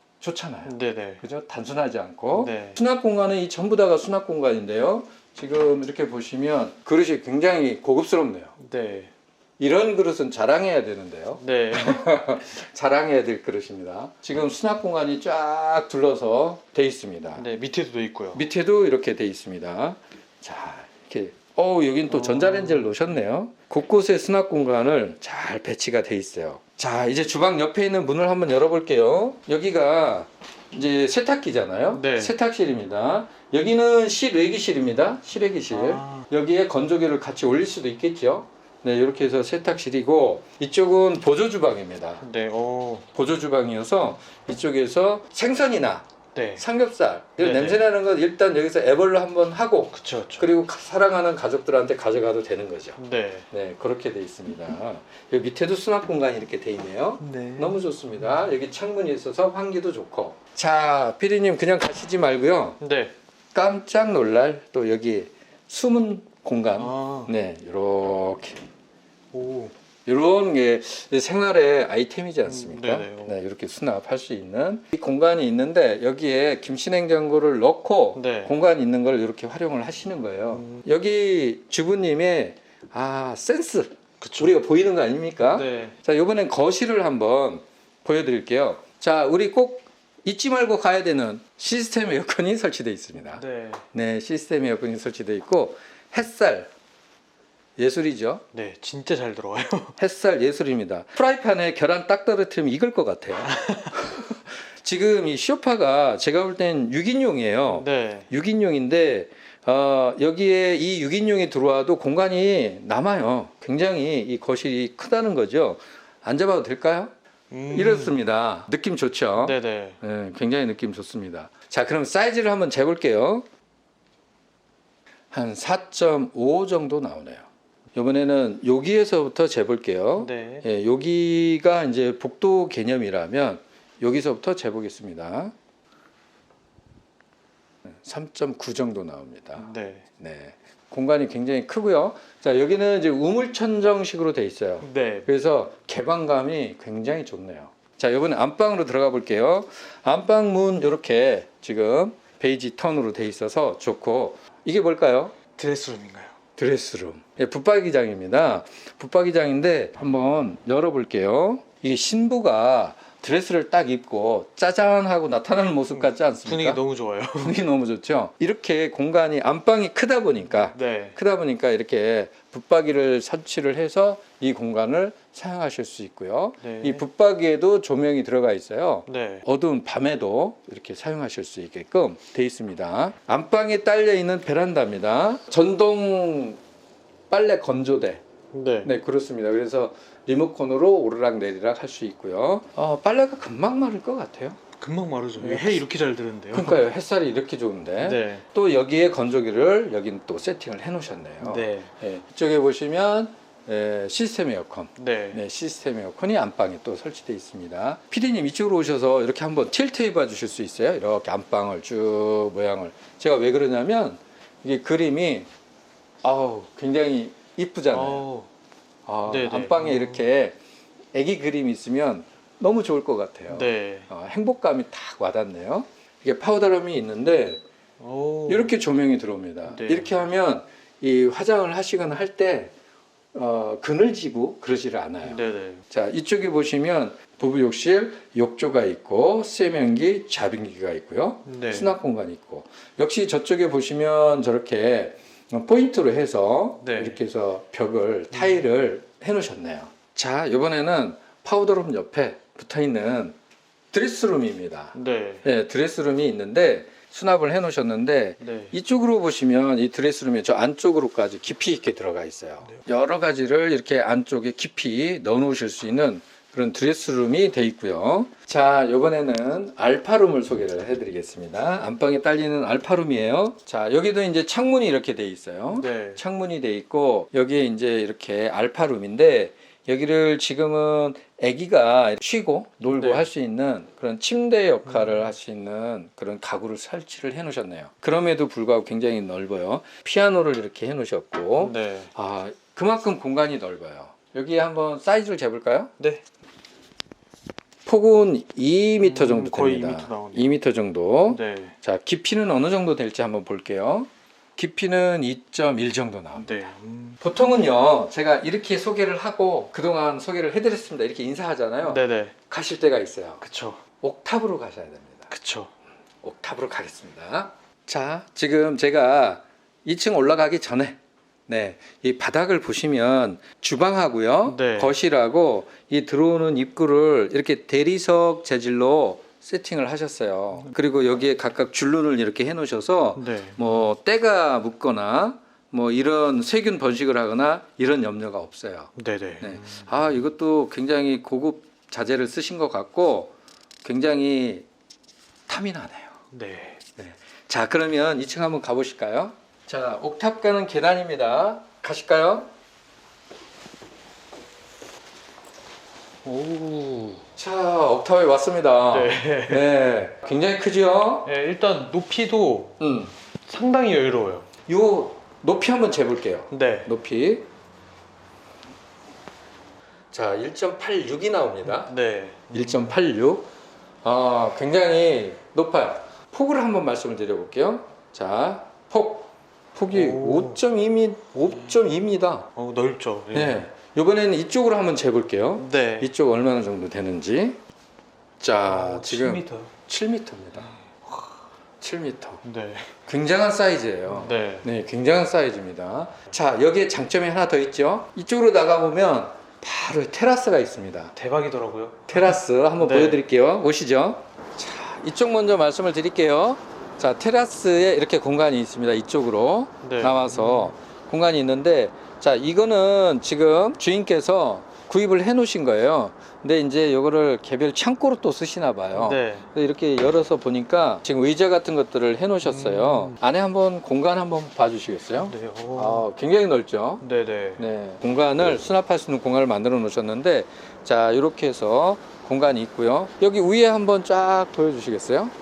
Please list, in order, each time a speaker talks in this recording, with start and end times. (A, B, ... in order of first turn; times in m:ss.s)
0:00.2-0:08.5 A
0:00.7-0:01.2 B
0:02.3-0:02.8 B
0:08.6-0:09.1 B
0:09.6-0:17.5 A
0:11.4-0:12.2 B
0:17.4-0:18.5 B
0:18.3-0:42.2 A
0:22.1-0:23.0 B
0:31.9-0:32.4 B
0:35.7-0:36.3 B
0:42.2-0:43.1 B
0:43.2-0:46.0 A
0:46.3-0:46.7 B
0:46.6-0:53.0 A
0:47.4-0:47.8 B
0:49.9-0:50.5 B
0:53.0-0:53.5 B
0:53.5-1:02.8 A
0:57.2-0:58.4 B
1:02.8-1:03.1 B
1:03.5-1:08.6 A
1:06.8-1:07.3 B
1:09.3-1:09.7 B
1:10.1-1:36.7 A
1:12.4-1:13.4 B
1:18.2-1:18.5 B
1:20.5-1:20.8 B
1:24.2-1:24.6 B
1:25.4-1:26.0 B
1:33.3-1:33.8 B
1:37.8-1:38.4 A
1:38.5-1:40.0 B
1:40.0-1:57.1 A
1:43.5-1:44.2 B
1:47.7-1:48.3 B
1:57.5-1:58.2 B
1:57.7-2:03.4 A
1:59.4-2:00.0 B
2:05.3-2:15.5 A
2:10.2-2:10.7 B
2:17.9-2:19.7 A
2:19.6-2:20.0 B
2:20.2-2:35.4 A
2:24.8-2:25.3 B
2:35.6-2:36.4 B
2:36.6-2:46.8 A
2:45.9-2:47.6 B
2:47.4-3:06.6 A
2:50.7-2:51.2 B
2:56.6-2:57.0 B
2:59.1-2:59.4 B
3:07.3-3:08.2 A
3:08.5-3:08.9 B
3:08.8-3:14.6 A
3:14.8-3:16.8 B
3:15.4-3:15.8 A
3:16.5-3:35.5 A
3:18.0-3:18.4 B
3:21.4-3:21.9 B
3:25.0-3:25.4 B
3:36.2-3:38.2 A
3:37.9-3:38.5 B
3:39.1-3:40.6 A
3:39.2-3:40.2 B
3:41.1-3:47.6 A
3:43.5-3:44.1 B
3:48.0-3:48.7 B
3:48.5-3:52.7 A
3:49.7-3:50.2 B
3:53.3-4:13.4 A
3:55.2-3:55.8 B
4:01.5-4:01.9 B
4:06.8-4:07.2 B
4:08.3-4:08.7 B
4:13.9-4:55.9 A
4:14.9-4:15.5 B
4:18.4-4:18.8 B
4:35.7-4:36.2 B
4:43.0-4:43.3 B
4:44.9-4:45.3 B
4:51.6-4:52.1 B
4:56.0-4:56.2 B
4:57.8-5:06.6 A
4:59.0-5:00.6 B
5:01.3-5:01.8 B
5:06.4-5:07.2 B
5:07.2-5:13.4 A
5:11.8-5:12.4 B
5:13.4-5:13.8 B
5:14.0-5:15.3 A
5:15.3-5:15.7 B
5:16.2-5:44.7 A
5:24.5-5:25.0 B
5:33.2-5:33.6 B
5:39.0-5:39.9 B
5:45.5-5:46.2 A
5:46.3-5:46.8 B
5:47.0-5:52.5 A
5:56.2-5:57.2 B
5:57.4-6:01.3 A
5:58.9-5:59.7 B
6:01.2-6:02.8 B
6:02.8-6:03.1 A
6:03.5-6:04.5 B
6:04.7-6:07.5 A
6:06.5-6:06.9 B
6:10.1-6:11.9 A
6:11.7-6:13.0 B
6:12.5-6:13.5 A
6:14.0-6:22.5 A
6:19.9-6:20.6 B
6:22.6-6:23.7 B
6:23.3-6:27.6 A
6:25.6-6:26.1 B
6:28.4-6:30.7 A
6:28.7-6:29.7 B
6:30.6-6:31.4 B
6:31.8-6:32.4 A
6:32.4-6:33.0 B
6:33.1-6:41.1 A
6:34.1-6:34.7 B
6:41.1-6:43.2 B
6:42.1-7:07.0 A
6:49.8-6:50.7 B
6:58.9-6:59.5 B
7:02.4-7:03.2 B
7:05.2-7:06.1 B
7:07.0-7:07.6 B
7:07.6-7:15.3 A